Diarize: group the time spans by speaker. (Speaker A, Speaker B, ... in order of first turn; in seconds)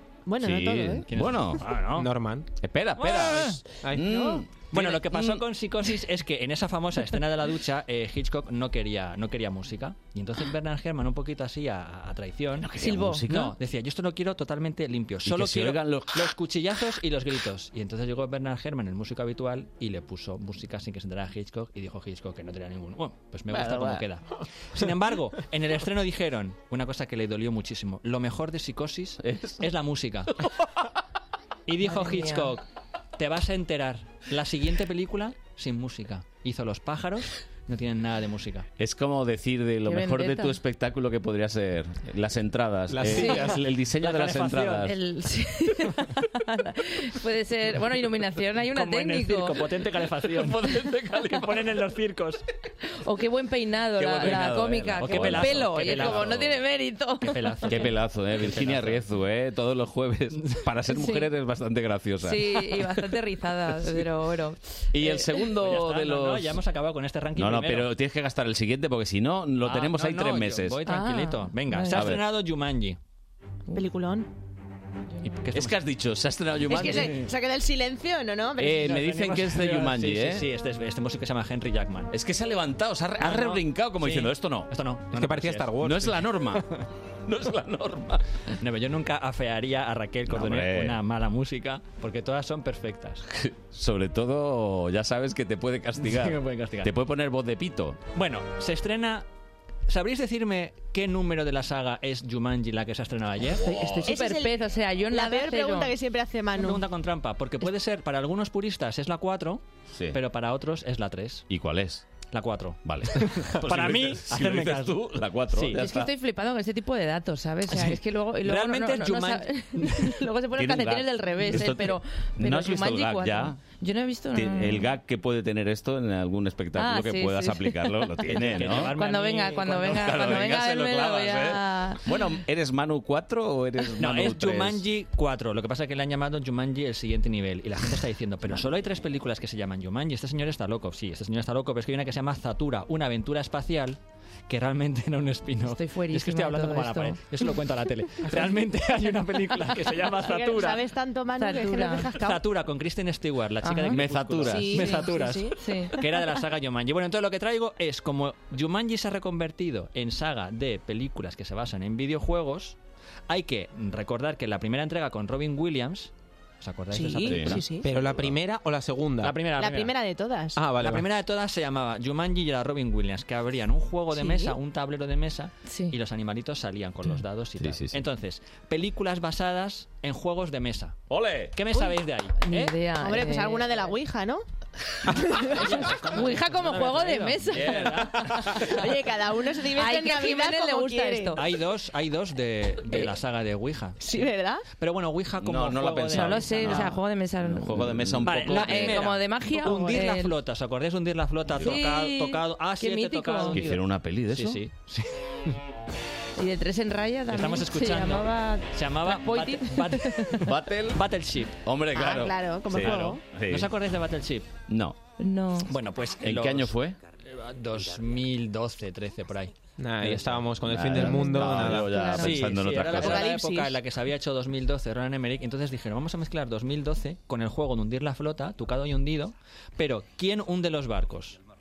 Speaker A: 0.3-1.0, 73.7-74.3, 76.6-79.0, 104.0-104.6, 105.1-106.8, 150.2-152.4, 154.4-155.6, 166.9-167.9, 169.6-170.6, 174.2-174.6, 183.0-184.4, 188.6-191.4, 194.0-194.6, 211.9-213.2, 221.9-223.8
Speaker B: 0.4-1.6, 2.6-5.4, 12.6-13.5, 15.2-16.3, 23.5-24.0, 29.2-29.6, 38.8-45.0, 50.2-51.7, 54.0-56.6, 57.7-63.1, 64.9-66.6, 67.3-70.8, 71.9-72.2, 75.5-77.2, 78.6-80.5, 82.1-84.7, 85.8-88.2, 90.3-91.0, 93.3-98.0, 103.6-104.1, 111.5-112.0, 112.8-116.1, 120.5-123.6, 124.3-128.9, 129.9-134.8, 153.9-155.0, 167.2-168.3, 177.6-178.0, 181.1-181.6, 187.5-188.4, 195.4-199.1, 203.5-204.6, 210.4-211.0, 211.6-213.7, 214.7-215.0, 216.2-217.0, 220.7-223.3
Speaker C: 1.1-2.1, 3.0-3.6, 4.7-12.7, 13.3-30.4, 31.7-32.6, 33.2-38.7, 43.9-44.9, 48.7-52.4, 54.2-56.6, 57.2-59.0, 65.5-67.9, 69.6-73.0, 75.2-75.8, 76.8-77.3, 78.8-82.1, 83.2-85.7, 88.6-93.2, 96.0-96.9, 98.1-99.2, 99.9-103.8, 106.5-111.5, 112.3-115.8, 117.7-120.2, 128.3-130.3, 134.0-144.0, 144.5-150.8, 152.1-162.8, 163.3-167.7, 169.2-169.9, 170.8-182.8, 185.3-188.8, 191.3-194.1, 194.7-197.0, 198.2-205.6, 207.3-211.6, 212.7-214.6, 215.7-221.0, 222.1-231.4
Speaker D: 1.9-2.5, 3.8-4.4, 42.9-43.6, 85.1-86.2, 167.8-169.4, 170.6-171.1, 219.8-222.1
Speaker E: 12.8-13.2, 31.8-32.5, 39.8-40.6, 43.1-43.5, 44.8-49.7, 53.0-57.9, 60.9-61.3, 62.2-65.3, 70.8-72.1, 103.6-106.0, 115.7-124.9, 126.7-132.2, 145.7-147.2, 151.4-152.1, 153.6-154.0, 155.6-156.0, 175.7-175.9, 182.4-183.7, 185.4-188.8, 189.7-191.4, 196.1-200.3, 201.6-203.6, 206.4-210.5, 215.2-215.7